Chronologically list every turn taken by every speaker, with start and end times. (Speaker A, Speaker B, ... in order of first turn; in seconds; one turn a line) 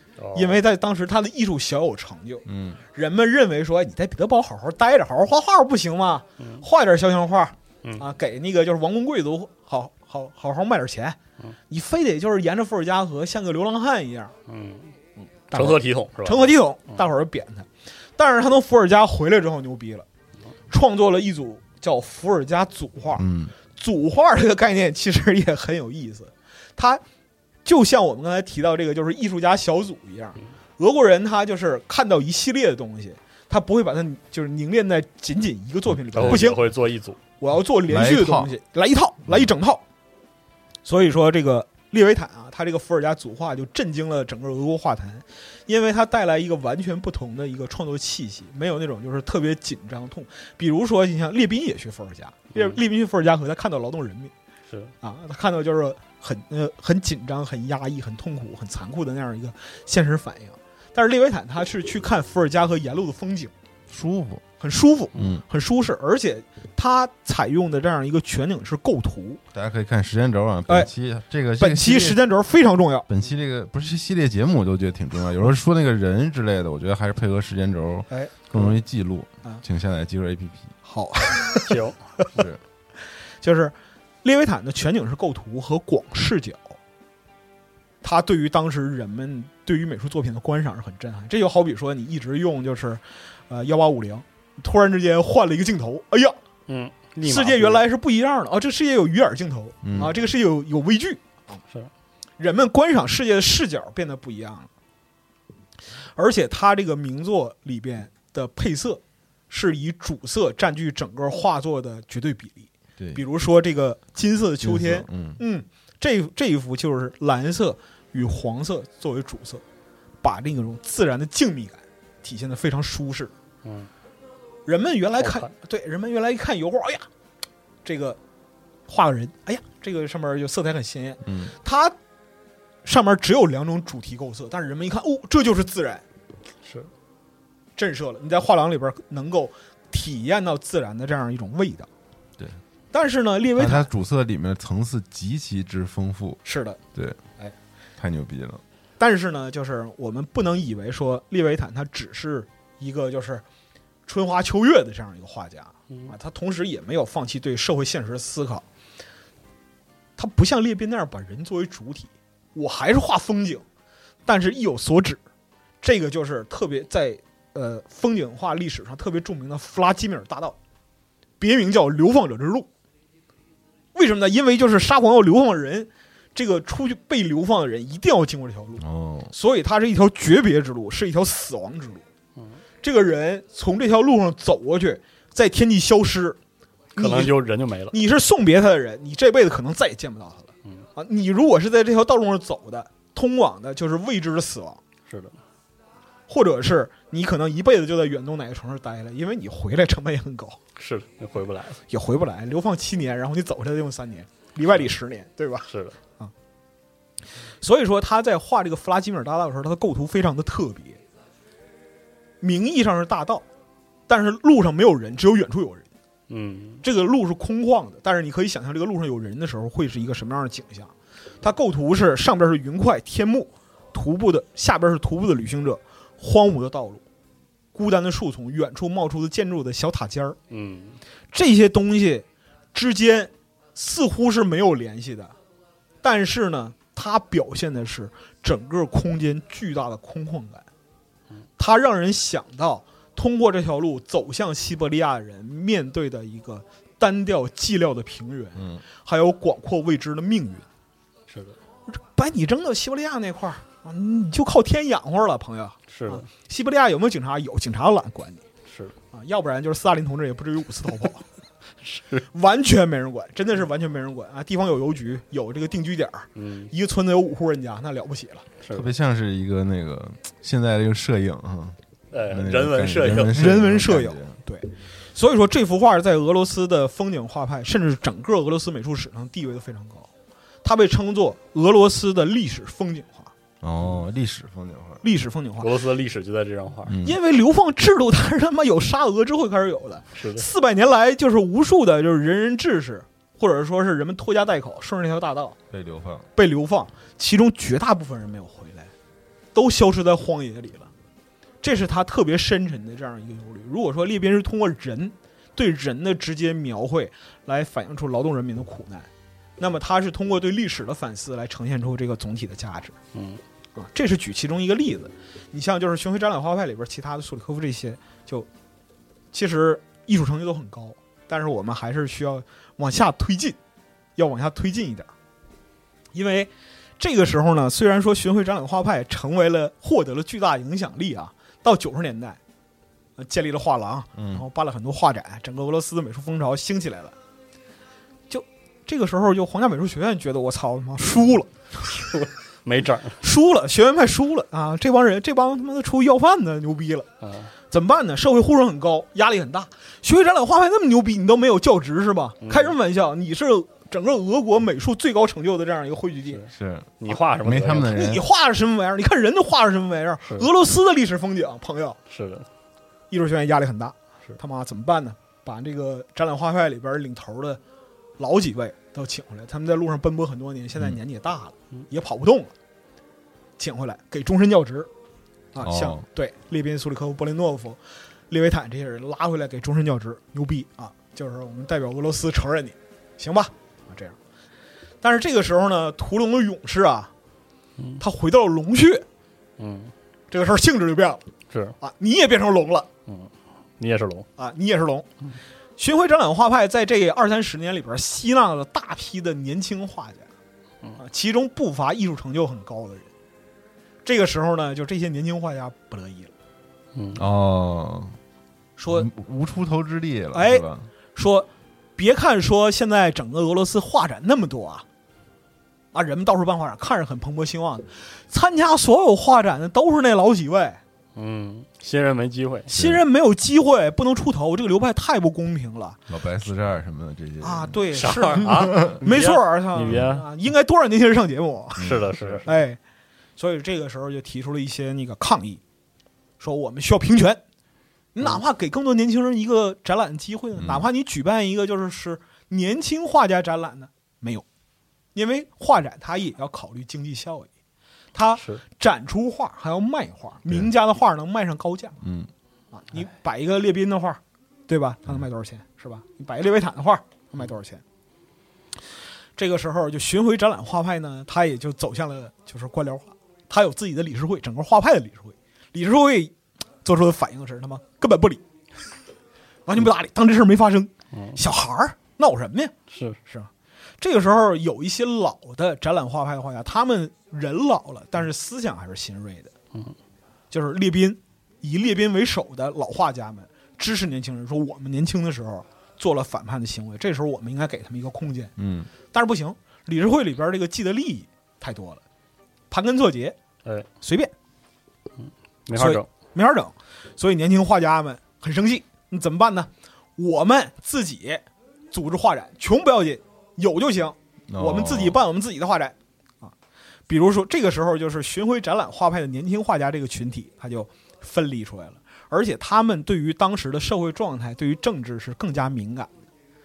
Speaker A: 0.2-0.6
Speaker B: 0.3-11.2
Speaker C: 2.5-2.8
Speaker B: 11.7-14.3
Speaker A: 14.5-14.9
Speaker B: 15.5-20.1
Speaker A: 15.5-16.5
Speaker B: 20.7-27.0
Speaker C: 23.2-23.5
Speaker B: 27.6-36.6
Speaker A: 36.1-37.2
Speaker C: 36.1-36.5
Speaker B: 37.4-39.8
Speaker C: 37.9-38.5
Speaker B: 40.9-54.3
Speaker A: 52.5-52.8
Speaker B: 55.0-63.5
Speaker C: 63.9-64.4
Speaker B: 64.6-69.4
Speaker C: 65.1-65.4
Speaker C: 69.5-72.2
Speaker B: 71.6-73.1
Speaker C: 73.1-80.7
Speaker B: 78.1-78.3
Speaker B: 80.8-81.8
Speaker A: 81.7-82.0
Speaker C: 82.3-82.6
Speaker B: 83.4-86.8
Speaker B: 88.0-96.4
Speaker A: 96.7-97.8
Speaker B: 97.2-101.2
Speaker C: 99.8-100.1
Speaker B: 102.4-104.7
Speaker B: 106.2-119.6
Speaker C: 114.6-115.4
Speaker B: 120.2-123.3
Speaker A: 123.6-123.9
Speaker B: 124.7-127.0
Speaker A: 125.2-125.5
Speaker B: 127.8-128.2
Speaker B: 128.9-131.9
Speaker C: 131.2-131.5
Speaker B: 132.8-136.0
Speaker A: 136.6-136.9
Speaker B: 137.8-141.9
Speaker B: 142.9-143.9
Speaker C: 143.5-146.4
Speaker B: 146.4-146.8
Speaker C: 146.9-147.2
Speaker C: 148.0-148.6
Speaker B: 149.0-153.4
Speaker B: 154.1-158.6
Speaker B: 160.2-163.6
Speaker B: 164.2-165.2
Speaker B: 165.8-170.6
Speaker B: 171.4-172.7
Speaker B: 173.9-182.0
Speaker C: 178.8-179.3
Speaker B: 182.8-186.4
Speaker B: 186.9-187.3
Speaker A: 186.9-187.9
Speaker B: 187.9-194.8
Speaker A: 195.1-195.4
Speaker B: 196.3-200.6
Speaker A: 200.8-201.8
Speaker B: 201.9-205.7
Speaker A: 205.7-205.9
Speaker B: 207.6-211.0
Speaker B: 212.4-213.4
Speaker B: 214.1-215.9
Speaker A: 216.3-216.8
Speaker B: 216.8-227.0
Speaker B: 227.7-230.4
Speaker A: 230.5-231.0
Speaker B: 231.3-235.3
Speaker B: 236.0-240.7
Speaker B: 241.6-250.6
Speaker A: 251.3-251.6
Speaker B: 251.9-258.4
Speaker A: 255.9-256.2
Speaker A: 258.7-258.9
Speaker B: 259.1-261.2
Speaker A: 261.8-262.2
Speaker B: 262.3-268.4
Speaker A: 266.4-266.7
Speaker A: 268.6-268.9
Speaker C: 268.7-274.4
Speaker A: 272.1-273.6
Speaker B: 273.2-280.1
Speaker B: 280.6-283.3
Speaker C: 283.6-285.0
Speaker B: 285.0-285.7
Speaker A: 285.6-287.0
Speaker C: 286.9-287.2
Speaker B: 287.0-295.6
Speaker A: 290.1-290.4
Speaker C: 295.7-296.3
Speaker B: 296.4-298.9
Speaker B: 299.5-300.9
Speaker B: 301.6-312.9
Speaker A: 313.1-313.4
Speaker B: 313.8-318.5
Speaker B: 319.3-323.6
Speaker B: 324.2-325.1
Speaker B: 326.1-332.4
Speaker B: 333.2-337.1
Speaker C: 334.1-334.4
Speaker B: 338.3-341.5
Speaker A: 342.1-343.2
Speaker B: 343.2-347.1
Speaker A: 347.2-347.5
Speaker B: 347.7-356.4
Speaker A: 352.4-352.7
Speaker C: 356.5-358.2
Speaker A: 357.0-358.1
Speaker B: 357.7-362.0
Speaker A: 362.1-362.4
Speaker B: 363.1-367.6
Speaker B: 368.2-372.5
Speaker B: 373.6-374.9
Speaker B: 375.5-377.8
Speaker C: 375.6-376.0
Speaker B: 378.3-384.1
Speaker B: 385.0-387.1
Speaker B: 388.0-389.0
Speaker A: 389.6-389.9
Speaker B: 390.3-391.2
Speaker B: 391.8-392.9
Speaker A: 393.1-394.3
Speaker B: 394.4-395.1
Speaker B: 395.8-400.3
Speaker B: 401.0-403.1
Speaker B: 404.0-406.3
Speaker A: 406.9-407.2
Speaker C: 407.1-408.1
Speaker B: 408.8-409.1
Speaker C: 408.9-410.9
Speaker B: 410.3-414.8
Speaker B: 415.9-420.8
Speaker A: 421.1-422.7
Speaker B: 422.7-426.0
Speaker C: 422.7-423.0
Speaker C: 426.1-427.8
Speaker B: 427.4-432.8
Speaker A: 427.9-430.2
Speaker C: 428.5-429.0
Speaker C: 431.8-432.4
Speaker A: 431.8-432.5
Speaker B: 433.4-435.6
Speaker B: 436.4-437.4
Speaker B: 438.1-444.4
Speaker C: 440.6-440.9
Speaker B: 445.1-447.5
Speaker B: 448.1-452.0
Speaker C: 452.0-452.3
Speaker B: 452.7-457.8
Speaker B: 459.4-468.4
Speaker B: 469.7-472.7
Speaker A: 472.9-473.2
Speaker B: 474.0-479.5
Speaker B: 480.5-488.5
Speaker C: 488.6-488.9
Speaker B: 489.1-492.0
Speaker B: 492.7-493.4
Speaker B: 494.0-494.3
Speaker A: 495.2-496.1
Speaker B: 495.7-506.5
Speaker C: 504.5-505.2
Speaker B: 507.1-516.1